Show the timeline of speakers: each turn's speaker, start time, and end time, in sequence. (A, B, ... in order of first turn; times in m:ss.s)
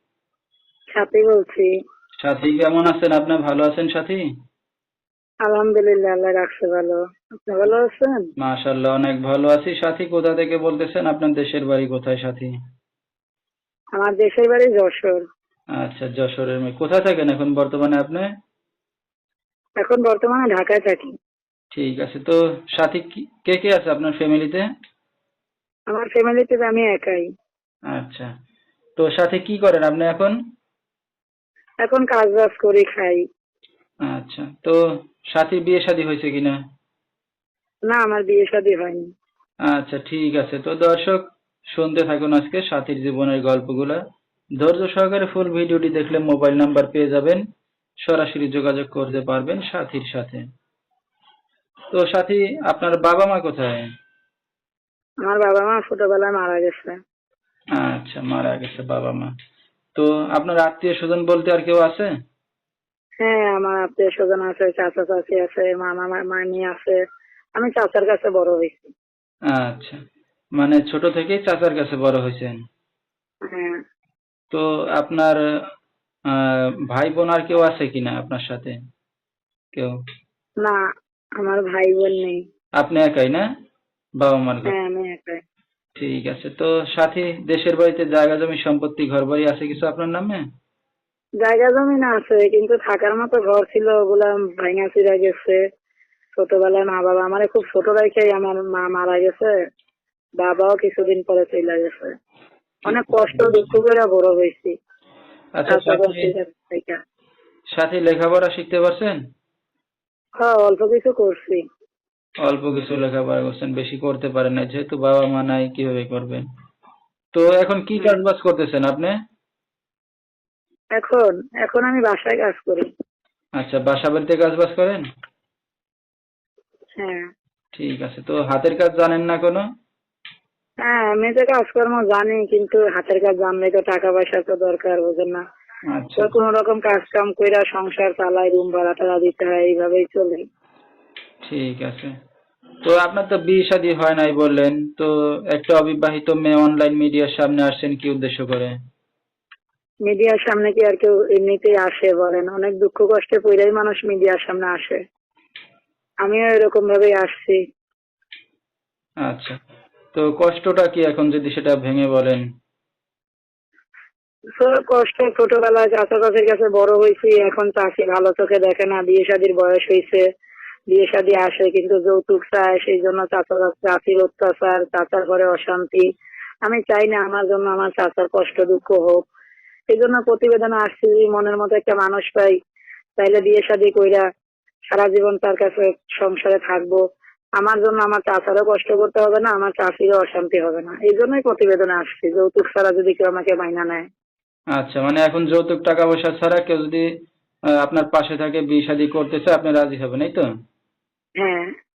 0:00.9-0:01.7 A
0:02.2-0:04.2 B
0:05.4-0:08.3 A
0:08.4-0:12.5 B
0:14.0-0:15.2 A
0:15.8-0:18.3 B
0:19.8-0:21.1 A
0:21.7-0:24.6 B
0:25.9-0:27.3 A
0:27.9-0:28.3 B
0:29.0-0:30.3 B
0:31.8-0:33.2 A
0:34.0-0:34.8 B
0:35.3-0:36.6 B
0:37.9-0:39.1 A
0:39.7-0:41.2 B
0:41.7-0:44.0 B
0:44.6-0:47.4 B
0:48.0-0:50.4 B
0:51.9-0:53.8 B
0:55.2-0:57.0 A
0:57.8-0:59.3 B
0:59.9-1:02.1 B
1:03.2-1:07.0 A
1:07.6-1:08.9 A
1:09.5-1:10.0 B
1:10.6-1:12.5 B
1:13.5-1:13.8 A
1:14.5-1:15.4 B
1:16.3-1:18.7 B
1:21.4-1:22.4 A
1:22.8-1:23.4 B
1:24.2-1:24.7 B
1:24.7-1:25.4 A
1:26.0-1:30.4 B
1:31.4-1:35.6 A
1:36.4-1:39.5 A
1:40.4-1:42.1 A
1:42.8-1:43.8 B
1:42.9-1:44.7 A
1:45.6-1:46.3 B
1:45.7-1:47.0 A
1:47.7-1:49.2 B
1:50.4-1:51.6 A
1:52.4-1:56.4 B
1:57.3-1:59.1 B
2:01.0-2:02.9 A
2:03.6-2:05.0 B
2:07.0-2:07.2 A
2:07.7-2:09.6 B
2:10.8-2:15.4 A
2:15.9-2:16.3 B
2:16.2-2:20.4 A
2:21.4-2:22.1 B
2:22.8-2:28.7 B
2:30.0-2:35.0 A
2:36.2-2:37.6 A
2:39.2-2:39.6 B
2:40.1-2:42.4 B
2:44.6-2:50.2 A
2:50.9-2:56.0 A
2:56.6-2:59.2 A
2:59.9-3:02.5 A
3:03.2-3:04.2 A
3:04.9-3:07.0 A
3:07.6-3:14.1 A
3:14.7-3:17.0 B
3:17.8-3:20.4 B
3:21.4-3:21.7 A